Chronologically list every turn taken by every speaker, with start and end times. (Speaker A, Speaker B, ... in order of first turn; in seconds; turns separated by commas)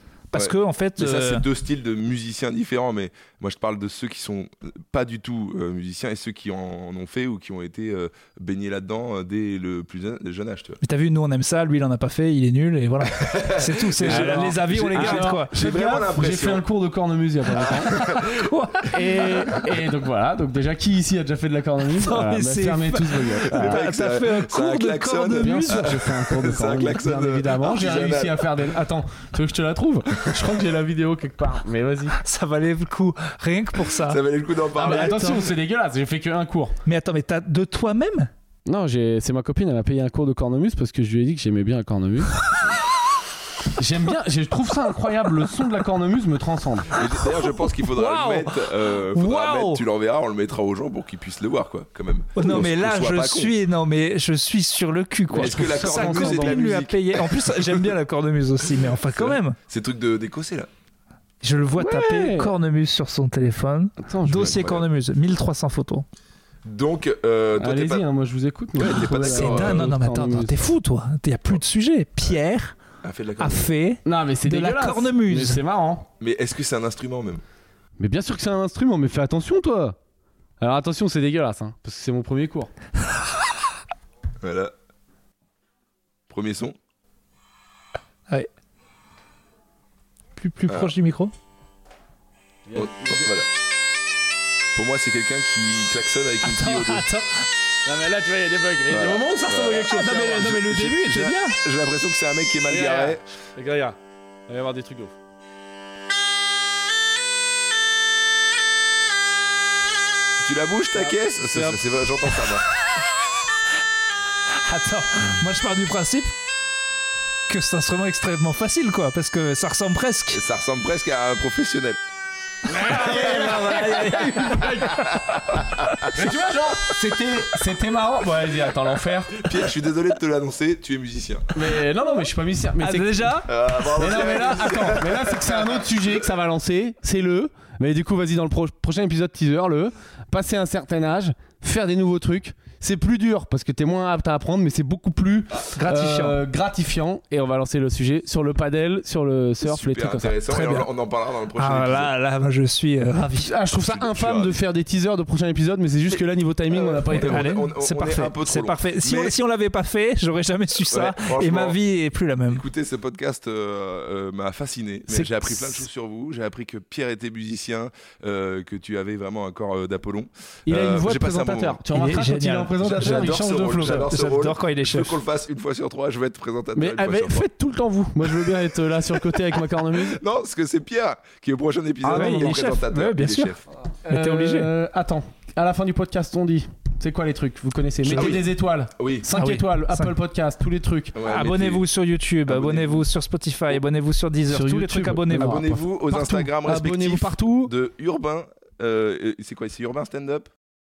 Speaker A: 0.3-1.5, Speaker B: 0.3-10.8, Speaker A: 10.8-15.6, Speaker B: 13.1-16.6, Speaker C: 14.0-18.0, Speaker B: 17.6-18.5, Speaker A: 18.0-19.5, Speaker C: 18.9-23.9, Speaker A: 22.0-26.0, Speaker B: 23.5-28.6, Speaker C: 25.4-32.2, Speaker A: 32.2-34.2, Speaker B: 34.0-35.4, Speaker A: 34.7-35.5, Speaker C: 34.7-36.8, Speaker A: 36.9-38.3, Speaker C: 38.7-42.3, Speaker C: 43.8-46.9, Speaker B: 46.9-53.5, Speaker A: 47.2-49.9, Speaker A: 52.4-59.6, Speaker C: 55.3-56.6, Speaker B: 55.4-57.7, Speaker B: 59.0-60.7, Speaker A: 61.4-66.0, Speaker C: 61.8-62.5, Speaker C: 64.0-64.6, Speaker B: 64.3-64.8, Speaker B: 66.7-68.1, Speaker C: 67.6-70.7, Speaker B: 68.8-69.9, Speaker A: 69.1-72.8, Speaker B: 73.0-73.7, Speaker A: 73.4-75.6, Speaker C: 74.0-76.1, Speaker B: 76.2-77.4, Speaker C: 78.0-80.0, Speaker C: 80.6-82.7, Speaker B: 84.4-84.7, Speaker B: 86.3-86.8, Speaker A: 90.4-91.3, Speaker B: 90.7-90.9, Speaker C: 92.7-93.3, Speaker B: 92.8-93.5, Speaker B: 94.8-97.0, Speaker A: 96.4-97.5, Speaker C: 97.8-100.6, Speaker B: 98.9-103.2, Speaker A: 99.8-101.6, Speaker C: 102.7-105.1, Speaker B: 110.4-112.7, Speaker C: 111.0-111.8, Speaker A: 114.7-116.3, Speaker A: 117.5-120.4, Speaker B: 120.3-122.0, Speaker C: 122.7-129.4, Speaker A: 122.7-125.2, Speaker B: 125.0-126.1, Speaker B: 129.3-131.6, Speaker C: 131.5-150.4, Speaker A: 132.8-133.5, Speaker B: 133.4-135.8, Speaker A: 145.8-146.4, Speaker B: 149.6-152.1, Speaker A: 150.5-150.9, Speaker A: 151.6-153.5, Speaker C: 153.4-157.5, Speaker B: 153.7-154.6, Speaker B: 156.1-159.4, Speaker A: 157.1-162.6, Speaker B: 160.9-161.8, Speaker B: 162.5-171.8, Speaker A: 165.1-165.8, Speaker C: 170.7-174.1, Speaker A: 171.9-175.2, Speaker B: 172.8-177.5, Speaker C: 176.8-180.2, Speaker B: 179.3-183.6, Speaker C: 182.0-182.7, Speaker A: 182.1-183.6, Speaker C: 184.1-191.2, Speaker A: 184.1-184.7, Speaker A: 188.1-188.4, Speaker B: 188.1-188.5, Speaker B: 189.0-189.3, Speaker A: 189.3-190.2, Speaker B: 191.2-191.8, Speaker A: 191.2-195.6, Speaker B: 192.5-193.1, Speaker C: 194.5-197.7, Speaker B: 195.3-200.5